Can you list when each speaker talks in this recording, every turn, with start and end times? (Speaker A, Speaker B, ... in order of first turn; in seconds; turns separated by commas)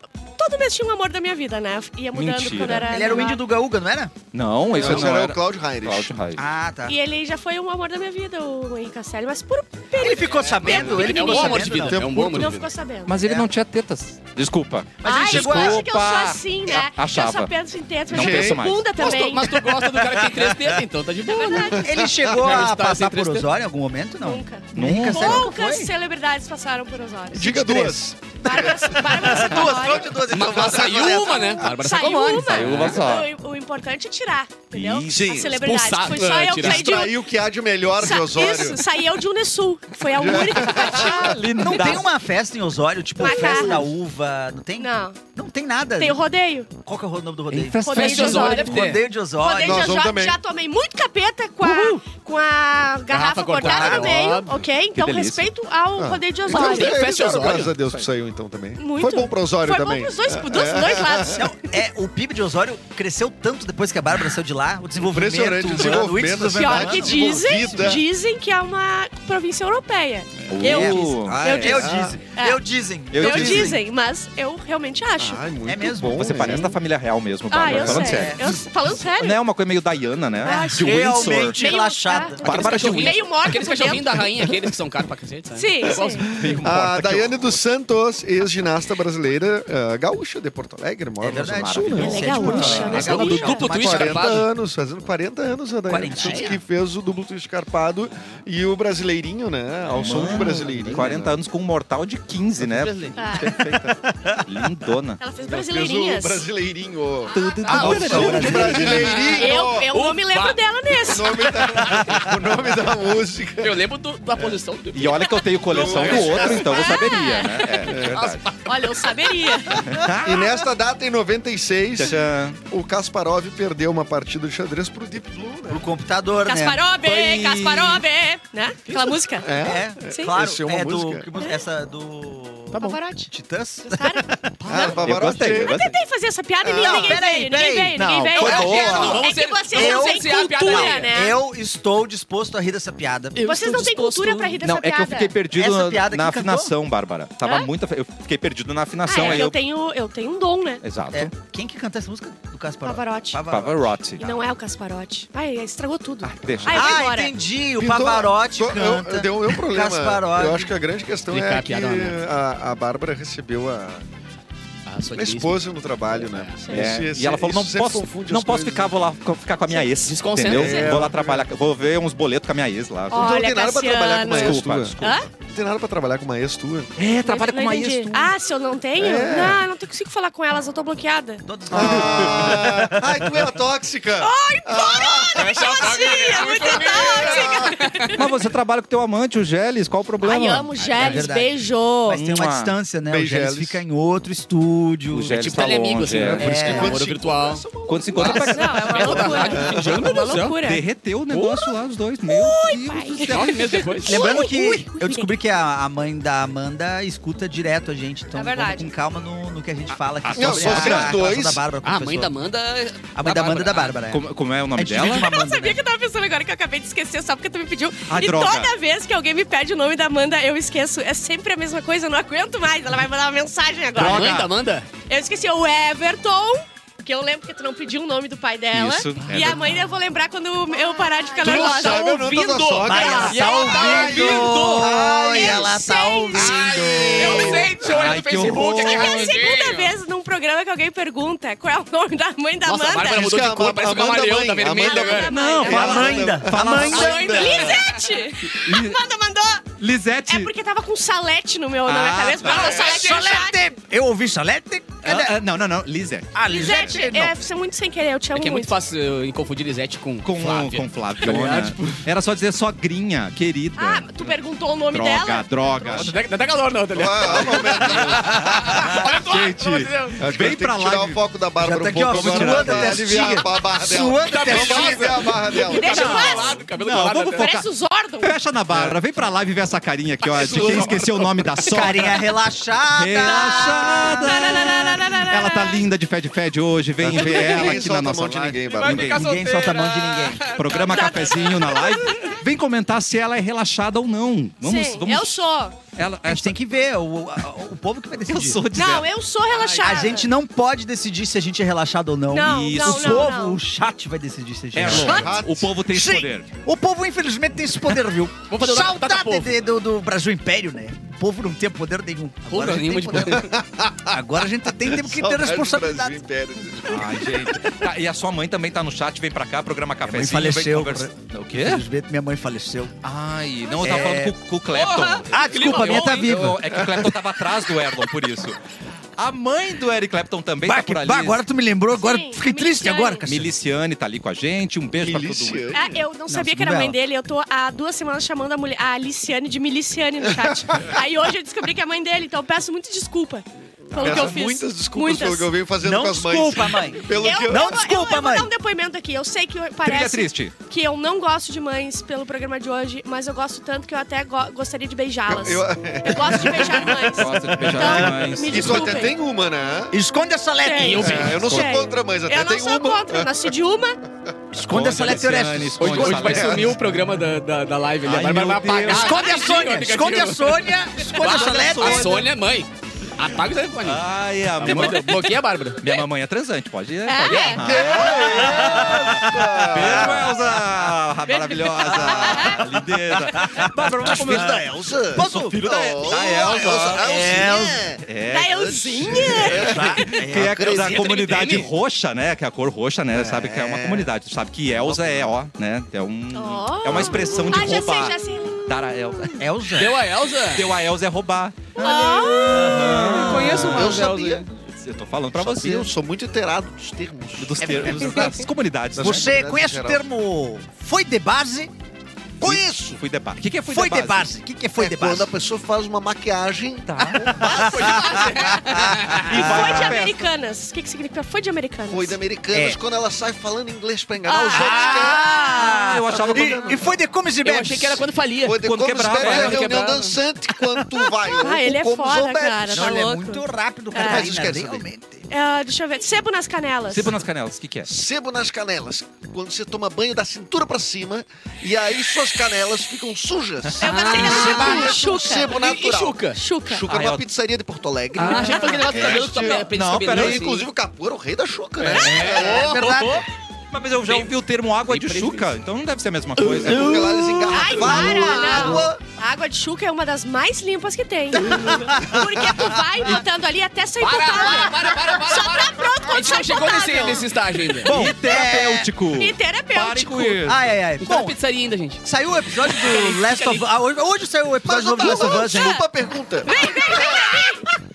Speaker A: 0.4-3.4, Speaker B: 2.1-3.1, Speaker C: 2.9-4.1, Speaker B: 4.3-6.4, Speaker A: 4.7-5.0, Speaker D: 4.7-6.1, Speaker C: 6.3-7.0, Speaker A: 6.9-13.2, Speaker C: 9.9-12.5, Speaker E: 10.4-12.7, Speaker D: 11.9-12.4, Speaker B: 13.1-17.5, Speaker C: 13.2-13.5, Speaker C: 15.0-15.8, Speaker A: 15.0-19.6, Speaker B: 18.1-18.9, Speaker D: 18.1-18.7, Speaker E: 19.0-23.5, Speaker C: 20.0-20.8, Speaker A: 21.3-21.9, Speaker C: 21.5-25.9, Speaker A: 24.2-27.6, Speaker B: 24.7-25.6, Speaker D: 27.3-31.7, Speaker C: 27.4-31.3, Speaker A: 28.4-30.2, Speaker E: 30.3-33.0, Speaker A: 31.6-37.2, Speaker B: 32.4-33.3, Speaker B: 34.7-35.4, Speaker D: 35.1-35.6, Speaker E: 35.5-37.0, Speaker D: 36.5-38.8, Speaker A: 38.0-41.4, Speaker D: 40.0-41.4, Speaker C: 41.0-46.2, Speaker B: 41.4-42.1, Speaker A: 43.2-43.9, Speaker A: 44.8-45.2, Speaker A: 46.0-46.7, Speaker C: 46.8-49.9, Speaker B: 47.5-48.7, Speaker A: 47.8-48.9, Speaker E: 47.9-49.0, Speaker A: 49.4-57.0, Speaker D: 49.5-50.4, Speaker C: 51.6-52.0, Speaker E: 53.1-54.5, Speaker C: 53.6-54.2, Speaker B: 54.9-55.5, Speaker D: 56.0-61.4, Speaker E: 56.5-57.7, Speaker A: 58.8-61.6, Speaker C: 61.3-68.0, Speaker D: 65.0-68.0, Speaker A: 65.7-72.6, Speaker B: 70.5-71.8, Speaker C: 70.6-73.8, Speaker D: 71.6-72.2, Speaker B: 73.1-73.8, Speaker A: 73.2-75.4, Speaker D: 75.2-76.8, Speaker C: 75.6-76.7, Speaker B: 76.0-81.6, Speaker A: 77.5-79.4, Speaker C: 77.6-78.6, Speaker A: 80.4-84.2, Speaker C: 80.4-82.4, Speaker B: 82.4-83.3, Speaker E: 82.4-86.2, Speaker A: 85.5-86.3, Speaker D: 85.9-93.1, Speaker B: 86.3-87.5, Speaker C: 91.2-94.4, Speaker B: 91.5-93.3, Speaker A: 91.9-93.7, Speaker E: 92.9-94.5, Speaker D: 93.6-101.4, Speaker C: 95.9-96.6, Speaker B: 99.8-103.9, Speaker C: 100.2-101.0, Speaker E: 102.8-103.2, Speaker A: 103.2-103.5, Speaker C: 103.4-104.9, Speaker B: 104.4-105.2, Speaker A: 105.2-106.5, Speaker D: 105.4-109.9, Speaker A: 107.2-111.7, Speaker B: 107.3-109.2, Speaker C: 107.7-109.1, Speaker E: 108.8-110.6, Speaker D: 111.0-113.7, Speaker E: 113.6-116.6, Speaker B: 114.9-118.5, Speaker D: 115.7-116.9, Speaker A: 116.6-117.9, Speaker E: 117.6-118.6, Speaker D: 117.8-118.2, Speaker A: 118.6-120.0, Speaker B: 119.7-120.5, Speaker D: 120.2-125.9, Speaker B: 122.0-122.6, Speaker C: 125.7-126.8, Speaker A: 126.5-129.5, Speaker B: 127.0-128.0, Speaker D: 129.4-131.3, Speaker C: 129.5-135.3, Speaker A: 130.0-130.3, Speaker A: 132.7-133.3, Speaker A: 133.9-134.8, Speaker D: 134.7-135.9, Speaker B: 134.7-135.9, Speaker A: 135.6-141.4, Speaker D: 136.6-137.2, Speaker C: 136.7-138.0, Speaker B: 137.9-139.3, Speaker E: 138.4-141.1, Speaker C: 139.7-143.5, Speaker E: 143.3-144.6, Speaker A: 143.4-145.3, Speaker B: 144.6-149.6, Speaker C: 145.5-146.7, Speaker A: 147.4-147.7, Speaker A: 149.0-150.8, Speaker B: 150.8-151.3, Speaker C: 151.1-154.0, Speaker A: 152.8-153.4, Speaker B: 153.5-154.4, Speaker A: 154.2-157.3, Speaker B: 156.2-156.9, Speaker C: 156.7-160.8, Speaker D: 157.8-164.0, Speaker E: 161.3-162.3, Speaker E: 164.8-166.7, Speaker D: 165.1-169.1, Speaker A: 166.6-167.0, Speaker B: 166.7-173.3, Speaker E: 169.9-171.1, Speaker D: 170.5-171.5, Speaker A: 170.6-170.8, Speaker A: 173.1-175.3, Speaker D: 173.1-176.9, Speaker B: 174.3-175.3, Speaker B: 176.9-178.3, Speaker A: 177.2-181.4, Speaker D: 179.0-179.6, Speaker C: 181.4-183.5, Speaker D: 181.7-187.8, Speaker A: 184.2-188.3, Speaker E: 185.3-188.2, Speaker B: 188.0-190.7, Speaker A: 190.2-192.2, Speaker E: 190.8-191.3, Speaker C: 190.9-197.0, Speaker B: 192.1-192.7, Speaker D: 193.1-193.8, Speaker B: 195.1-196.9, Speaker E: 195.3-200.6, Speaker D: 196.0-200.1, Speaker B: 197.8-199.6, Speaker A: 198.2-200.8, Speaker B: 200.6-203.9, Speaker E: 201.3-201.6, Speaker A: 202.2-205.3, Speaker E: 203.2-204.2, Speaker C: 204.1-212.3, Speaker A: 208.3-208.9, Speaker B: 210.2-211.2, Speaker D: 210.3-211.6, Speaker E: 211.8-213.9, Speaker C: 213.1-215.8, Speaker B: 214.0-215.3, Speaker A: 215.0-224.3, Speaker B: 218.1-218.7, Speaker B: 223.9-224.5, Speaker E: 223.9-224.9, Speaker A: 225.1-232.1, Speaker B: 228.7-229.7, Speaker E: 231.4-235.1, Speaker D: 231.4-235.7, Speaker C: 232.8-237.8, Speaker A: 232.9-234.1, Speaker A: 235.3-236.6, Speaker E: 236.3-239.9, Speaker D: 236.3-238.1, Speaker B: 237.9-239.3, Speaker A: 238.5-243.3, Speaker E: 242.6-245.3, Speaker D: 242.9-248.0, Speaker A: 244.7-249.7, Speaker B: 245.3-247.5, Speaker C: 245.5-247.4, Speaker E: 247.3-247.8, Speaker B: 248.4-249.0, Speaker B: 249.8-250.5, Speaker A: 250.2-253.7, Speaker B: 251.8-253.0, Speaker E: 252.4-253.4, Speaker C: 252.6-255.3, Speaker B: 255.0-256.4, Speaker C: 256.3-257.3, Speaker A: 256.5-258.8, Speaker E: 258.3-262.0, Speaker B: 260.2-264.4, Speaker A: 263.8-266.1, Speaker B: 264.9-266.1, Speaker E: 265.9-270.2, Speaker D: 266.9-268.9, Speaker B: 267.3-271.2, Speaker C: 268.4-269.0, Speaker D: 270.2-276.5, Speaker C: 271.6-276.2, Speaker B: 272.1-273.5, Speaker E: 274.2-277.5, Speaker A: 275.7-276.6, Speaker B: 275.9-277.7, Speaker A: 277.4-278.3, Speaker B: 278.2-282.3, Speaker E: 280.2-281.7, Speaker D: 280.3-281.2, Speaker C: 281.7-284.3, Speaker B: 282.9-289.4, Speaker A: 283.3-285.8, Speaker D: 287.0-289.2, Speaker E: 287.1-287.7, Speaker E: 288.6-291.9, Speaker C: 289.1-290.5, Speaker B: 290.5-295.4, Speaker A: 290.9-292.4, Speaker A: 294.6-295.8, Speaker B: 295.9-296.6, Speaker C: 296.3-298.6, Speaker B: 298.3-299.1, Speaker A: 298.7-300.3, Speaker E: 299.5-300.2, Speaker C: 299.8-313.5, Speaker A: 302.3-303.6, Speaker B: 302.4-303.3, Speaker B: 304.7-306.5, Speaker D: 304.8-305.8, Speaker E: 308.5-309.6, Speaker E: 312.5-313.5, Speaker D: 313.1-314.2, Speaker C: 314.1-316.2, Speaker D: 314.9-317.7, Speaker B: 316.9-321.8, Speaker C: 320.0-322.9, Speaker B: 323.0-328.6, Speaker C: 323.8-324.3, Speaker E: 324.7-326.5, Speaker C: 325.2-326.6, Speaker D: 326.7-327.1, Speaker B: 329.2-331.4, Speaker C: 330.6-333.5, Speaker A: 331.9-333.2, Speaker B: 333.2-335.8, Speaker D: 334.9-336.0, Speaker A: 335.7-345.5, Speaker C: 336.3-336.9, Speaker D: 343.9-347.8, Speaker B: 344.0-344.4, Speaker C: 345.8-348.5, Speaker A: 347.1-359.1, Speaker B: 349.8-350.5, Speaker D: 355.3-357.1, Speaker B: 357.1-359.1, Speaker C: 357.5-358.4, Speaker D: 358.4-359.9, Speaker C: 359.9-361.2, Speaker A: 360.6-364.0, Speaker E: 360.8-361.5, Speaker D: 360.9-363.5, Speaker B: 361.2-361.7, Speaker C: 364.5-366.4, Speaker B: 364.6-366.8, Speaker E: 365.8-375.8, Speaker D: 365.9-366.8, Speaker B: 368.0-369.3, Speaker C: 368.8-372.3, Speaker B: 371.1-372.2, Speaker B: 373.8-384.6, Speaker A: 377.1-377.7, Speaker D: 377.6-380.4, Speaker C: 378.0-380.3, Speaker A: 381.2-382.6, Speaker C: 381.8-387.9, Speaker D: 384.0-391.6, Speaker B: 385.1-387.4, Speaker B: 388.0-399.4, Speaker A: 388.3-390.2, Speaker C: 389.4-391.6, Speaker E: 391.2-391.7, Speaker D: 393.1-394.1, Speaker A: 396.3-399.1, Speaker D: 396.9-397.6, Speaker C: 399.4-399.9, Speaker E: 399.7-400.7, Speaker B: 400.5-405.9, Speaker A: 401.7-403.1, Speaker C: 401.8-404.0, Speaker E: 403.0-404.5, Speaker D: 403.5-404.5, Speaker D: 405.4-408.4, Speaker B: 407.4-409.3, Speaker C: 407.6-408.4, Speaker D: 408.9-410.0, Speaker C: 409.0-411.7, Speaker C: 412.4-412.6, Speaker D: 412.4-413.0, Speaker B: 412.4-414.3, Speaker C: 413.6-415.3, Speaker D: 414.8-416.9, Speaker B: 416.9-417.5, Speaker C: 417.0-419.8, Speaker E: 417.3-419.5, Speaker B: 418.9-420.3, Speaker A: 419.3-422.2, Speaker D: 421.9-427.0, Speaker C: 422.5-422.8, Speaker A: 424.2-425.9, Speaker C: 424.4-428.1, Speaker B: 425.8-426.9, Speaker E: 427.4-430.2, Speaker D: 428.4-433.0, Speaker B: 428.6-429.9, Speaker A: 431.2-434.3, Speaker C: 432.7-435.3, Speaker D: 433.9-434.8, Speaker A: 435.3-437.2, Speaker B: 436.9-437.9, Speaker D: 437.8-452.7, Speaker E: 443.8-444.9, Speaker A: 443.8-445.6, Speaker C: 444.1-445.1, Speaker E: 445.4-446.4, Speaker A: 446.3-446.8, Speaker B: 446.9-447.2, Speaker B: 448.2-450.5, Speaker E: 448.2-450.7, Speaker E: 451.8-453.2, Speaker C: 451.8-453.2, Speaker B: 453.7-457.0, Speaker E: 454.1-454.3, Speaker E: 454.9-455.5, Speaker C: 456.4-458.9, Speaker D: 456.5-459.0, Speaker A: 457.5-467.3, Speaker C: 461.5-462.2, Speaker E: 464.0-467.9, Speaker C: 467.8-468.9, Speaker B: 467.9-470.6, Speaker A: 467.9-470.4, Speaker C: 470.4-471.4, Speaker E: 471.0-472.0, Speaker C: 472.0-475.8, Speaker E: 472.6-473.7, Speaker D: 474.6-477.5, Speaker A: 474.9-475.8, Speaker A: 476.4-477.7